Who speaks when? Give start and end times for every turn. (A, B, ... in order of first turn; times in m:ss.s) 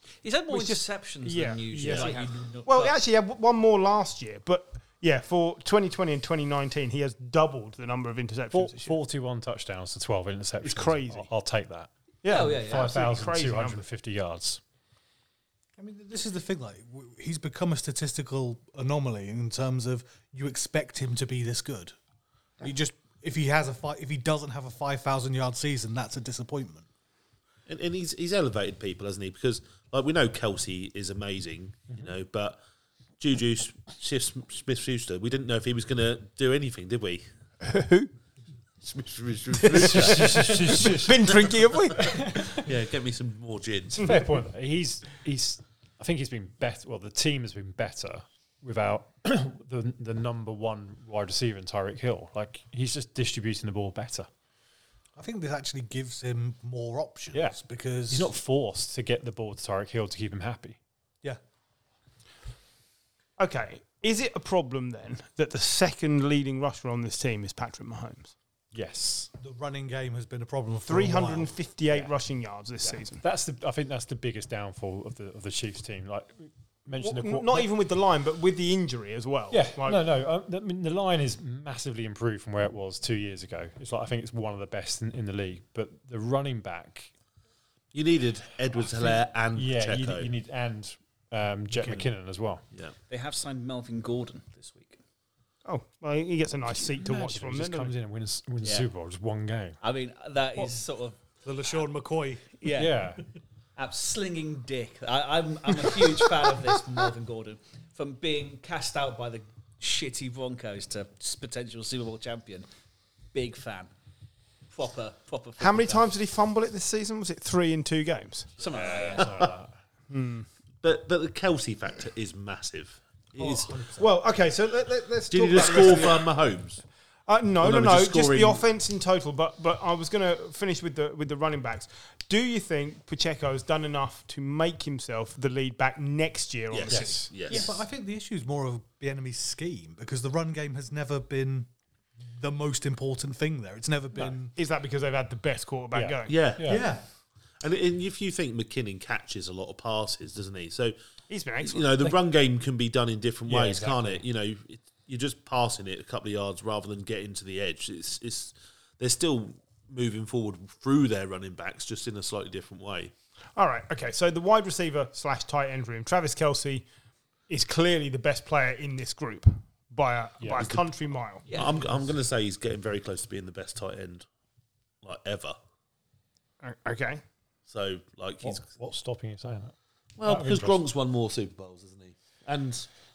0:00.2-0:03.0 A
0:00.5-0:09.0 B
0:01.8-0:02.1 C
0:08.5-0:14.6 D
0:10.6-0:11.3 B
0:12.2-0:13.8 B
0:12.3-0:12.9 A
0:15.8-0:21.9 E
0:22.6-0:26.9 E
0:27.7-0:32.6 C
0:33.2-0:37.2 C
0:37.6-0:38.1 B
0:38.8-0:41.4 C
0:39.6-0:42.6 B
0:39.8-0:41.1 D
0:42.0-0:42.5 D
0:42.6-0:44.1 C
0:44.0-0:54.3 D
0:55.2-0:58.3 E
0:57.3-0:57.6 D
0:58.1-1:00.8 D
1:03.4-1:08.3 B
1:08.7-1:09.3 D
1:09.3-1:11.5 E
1:10.8-1:13.2 B
1:12.8-1:17.7 D
1:17.0-1:20.0 B
1:19.5-1:27.1 D
1:27.9-1:30.3 C
1:29.0-1:32.6 D
1:31.8-1:32.0 E
1:33.1-1:35.0 A
1:35.6-1:37.9 B
1:36.8-1:39.8 D
1:39.8-1:41.8 A
1:41.4-1:42.6 E
1:42.6-1:42.9 A
1:42.7-1:43.2 D
1:43.8-1:52.6 A
1:53.3-1:53.9 A
1:54.7-1:56.1 A
1:55.6-1:58.5 B
1:58.6-1:59.3 A
1:58.6-1:59.7 D
2:00.1-2:00.5 B
2:00.8-2:03.7 C
2:03.4-2:04.1 E
2:04.0-2:06.3 B
2:05.3-2:06.8 C
2:07.3-2:17.8 B
2:07.6-2:08.6 C
2:16.7-2:17.7 C
2:16.9-2:17.3 D
2:17.4-2:21.7 E
2:22.2-2:24.5 E
2:24.2-2:26.4 B
2:25.9-2:26.9 D
2:26.3-2:26.9 C
2:26.6-2:27.0 E
2:27.6-2:31.0 C
2:31.3-2:31.9 B
2:31.6-2:43.1 C
2:33.5-2:34.2 D
2:43.6-2:46.8 B
2:47.5-2:51.4 B
2:50.4-2:50.8 D
2:51.5-2:51.7 A
2:51.5-2:54.2 C
2:55.0-2:55.6 C
2:56.6-2:57.2 B
2:57.7-2:58.6 C
2:58.4-3:00.8 D
3:00.2-3:02.9 C